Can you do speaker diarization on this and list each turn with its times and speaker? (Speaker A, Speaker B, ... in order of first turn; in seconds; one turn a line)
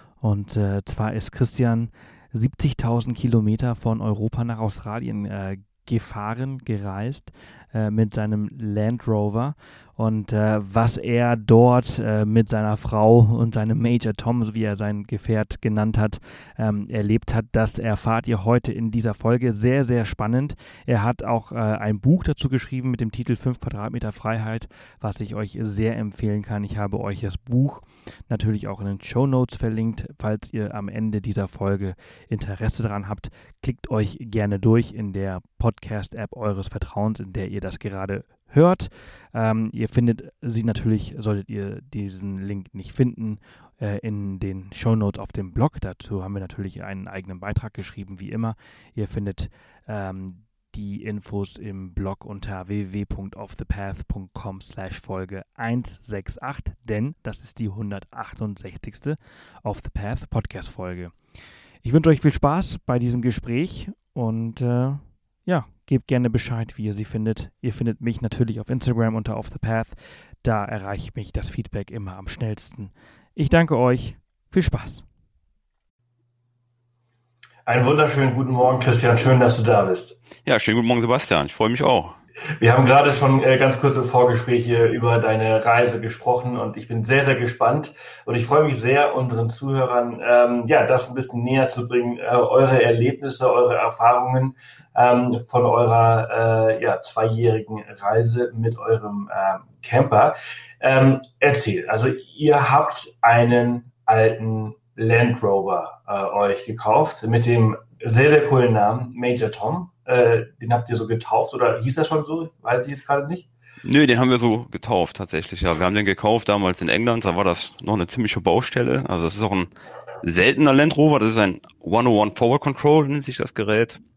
Speaker A: 0.2-13.5
Speaker B: 2.8-3.1
Speaker B: 4.2-4.5
Speaker B: 12.2-12.5
Speaker B: 13.6-14.1
Speaker A: 14.0-61.1
Speaker A: 61.9-75.0
Speaker B: 73.6-74.0
Speaker B: 74.6-74.9
Speaker B: 77.7-80.2
Speaker C: 80.5-82.2
Speaker B: 82.6-113.5
Speaker C: 113.8-119.7
Speaker C: 120.2-124.0